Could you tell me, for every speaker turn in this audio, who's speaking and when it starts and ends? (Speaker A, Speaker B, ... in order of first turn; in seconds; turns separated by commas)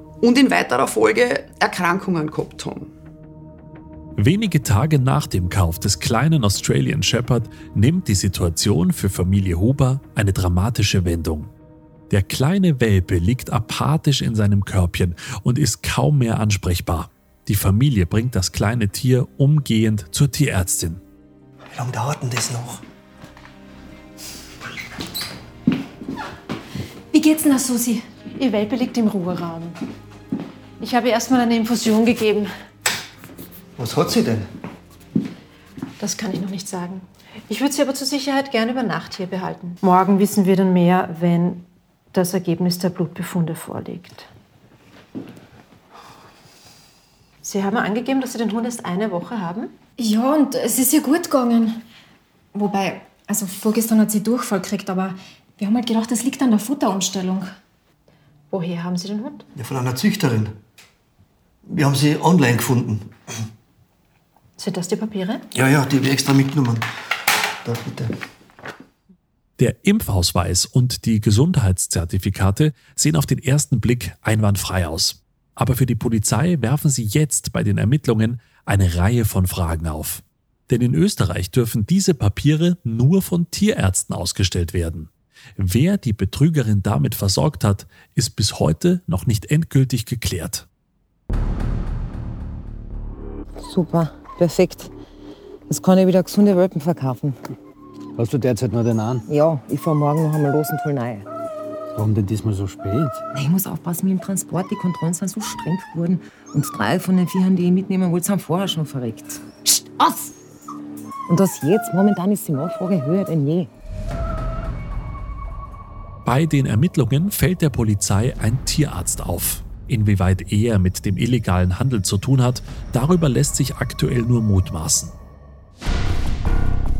Speaker A: 0.2-2.9, Speaker B: 4.2-11.5, Speaker B: 12.1-21.0, Speaker C: 21.7-22.8, Speaker D: 28.3-29.8, Speaker D: 30.8-32.5, Speaker C: 33.8-34.5, Speaker D: 36.0-44.3, Speaker D: 47.4-49.7, Speaker E: 50.0-51.8, Speaker E: 52.5-57.5, Speaker D: 58.5-59.5, Speaker C: 59.5-60.5, Speaker C: 61.6-63.1, Speaker D: 64.6-65.5, Speaker C: 65.5-66.8, Speaker C: 67.6-68.1, Speaker B: 69.6-90.7, Speaker F: 93.6-94.9, Speaker F: 95.7-97.4, Speaker G: 98.2-99.2, Speaker F: 99.2-101.2, Speaker G: 102.0-103.2, Speaker F: 103.3-110.3, Speaker F: 111.3-113.7, Speaker B: 116.2-125.1